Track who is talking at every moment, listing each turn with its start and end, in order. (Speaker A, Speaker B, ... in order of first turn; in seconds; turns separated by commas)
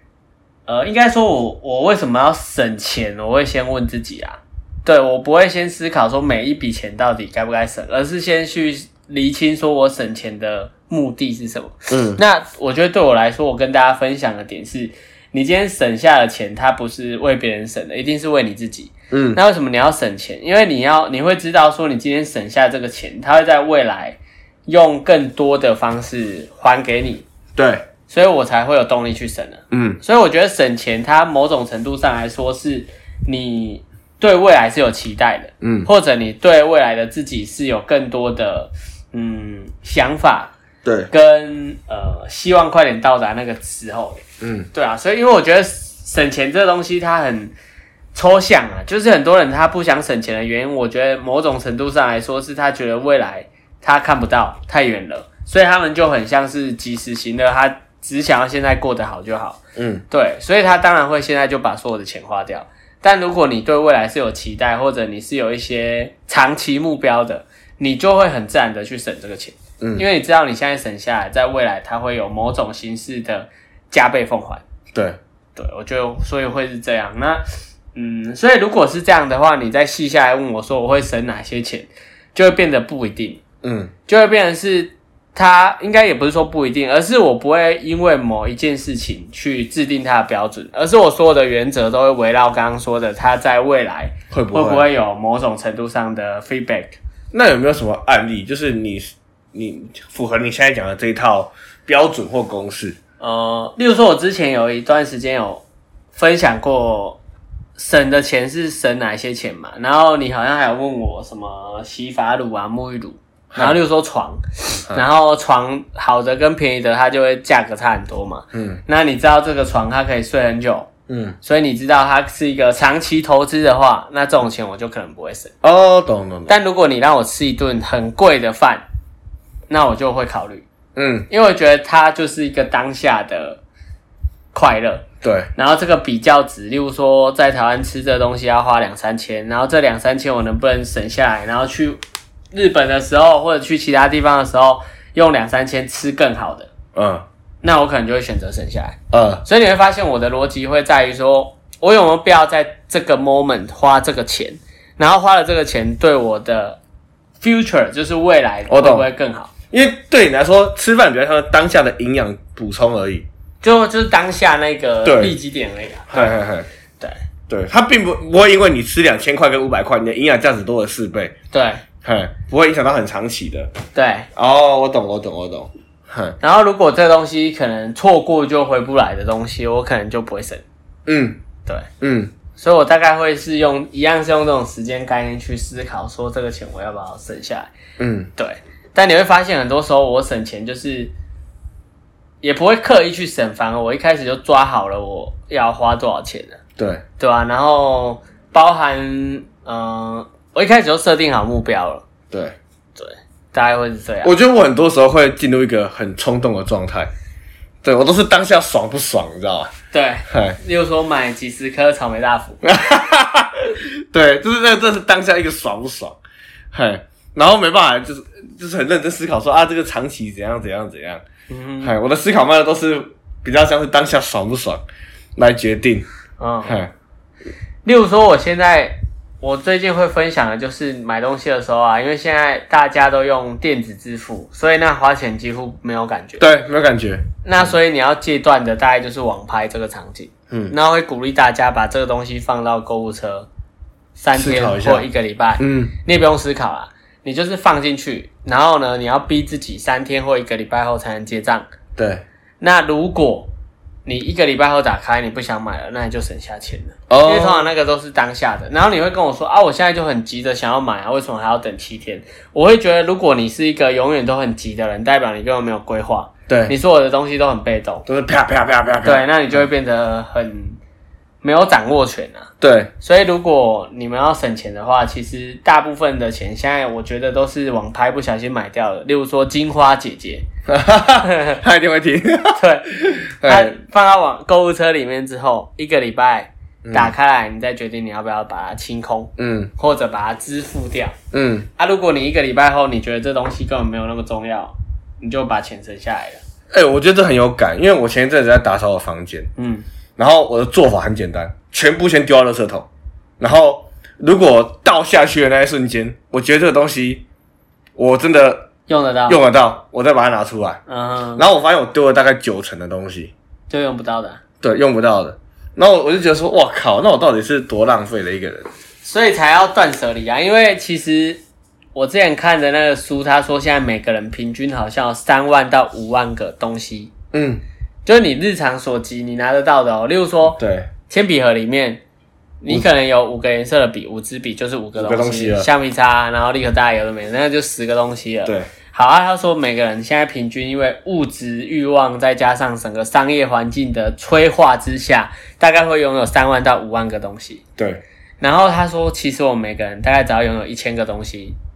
Speaker A: 0.7-27.2, Speaker B: 11.9-12.2, Speaker B: 19.1-19.4, Speaker B: 27.6-27.9, Speaker A: 28.1-40.5, Speaker B: 29.7-30.0, Speaker B: 35.6-35.9, Speaker B: 40.8-41.1, Speaker A: 41.1-44.2, Speaker B: 44.4-44.7, Speaker A: 44.7-47.5, Speaker A: 48.1-74.6, Speaker B: 59.8-60.0, Speaker B: 74.9-75.2, Speaker A: 75.5-77.4, Speaker A: 77.9-83.4, Speaker B: 83.6-83.9, Speaker A: 84.1-97.0, Speaker B: 94.3-94.9, Speaker B: 97.3-103.0, Speaker A: 103.2-105.6, Speaker A: 106.1-107.2, Speaker A: 107.8-120.9, Speaker B: 113.5-113.8, Speaker B: 118.5-118.8, Speaker B: 121.1-121.4, Speaker A: 121.4-125.5, Speaker B: 125.6-126.6, Speaker A: 126.5-128.8, Speaker A: 129.7-130.6, Speaker B: 130.9-131.3, Speaker A: 131.3-133.6, Speaker A: 134.5-135.0, Speaker B: 135.2-135.5, Speaker A: 135.6-142.0, Speaker A: 142.5-146.7, Speaker B: 146.9-147.2, Speaker A: 147.6-156.8, Speaker B: 149.1-149.4, Speaker A: 157.4-159.5, Speaker B: 158.7-159.1, Speaker B: 159.7-163.2, Speaker A: 163.6-166.3, Speaker B: 165.0-165.4, Speaker B: 166.1-166.7, Speaker B: 167.5-171.3, Speaker A: 171.5-171.8, Speaker B: 172.0-173.7, Speaker A: 173.9-174.3, Speaker B: 174.3-176.4, Speaker A: 176.4-180.6, Speaker B: 181.1-181.4, Speaker B: 182.0-182.3, Speaker A: 182.6-187.7, Speaker B: 188.0-188.3, Speaker A: 188.4-191.1, Speaker A: 192.4-196.6, Speaker B: 196.8-197.0, Speaker A: 197.2-202.0, Speaker B: 202.3-202.6, Speaker A: 202.9-204.3, Speaker B: 204.2-207.1, Speaker B: 207.8-209.7, Speaker A: 209.9-212.6, Speaker B: 210.3-210.6, Speaker B: 212.6-216.2, Speaker B: 216.7-221.2, Speaker A: 221.5-221.9, Speaker B: 221.8-224.8, Speaker B: 225.3-226.1, Speaker A: 226.4-226.8, Speaker B: 226.7-226.9, Speaker A: 227.8-236.5, Speaker B: 236.4-237.7, Speaker A: 237.4-243.5, Speaker A: 244.2-251.7, Speaker B: 244.3-245.1, Speaker B: 245.6-245.9, Speaker B: 251.9-252.2, Speaker A: 252.6-253.5, Speaker A: 254.1-268.1, Speaker B: 257.1-257.7, Speaker B: 266.5-266.7, Speaker B: 268.1-269.6, Speaker A: 269.0-270.8, Speaker A: 271.4-280.4, Speaker B: 272.6-272.9, Speaker B: 280.7-283.7, Speaker A: 281.2-281.6, Speaker A: 282.6-291.1, Speaker B: 286.8-287.1, Speaker B: 289.4-289.7, Speaker B: 291.3-291.7, Speaker A: 291.8-296.4, Speaker B: 296.7-299.5, Speaker A: 299.6-299.8, Speaker B: 300.2-302.9, Speaker B: 303.4-307.2, Speaker B: 307.9-308.7, Speaker A: 308.9-309.4, Speaker B: 309.3-310.8, Speaker A: 310.9-311.4, Speaker B: 311.4-313.3, Speaker A: 313.7-314.4, Speaker B: 314.6-318.7, Speaker A: 319.0-321.4, Speaker A: 321.9-327.1, Speaker B: 327.3-327.6, Speaker A: 328.0-332.0, Speaker B: 330.6-330.9, Speaker A: 332.6-347.6, Speaker B: 334.9-335.7, Speaker B: 347.8-348.0, Speaker A: 348.4-351.6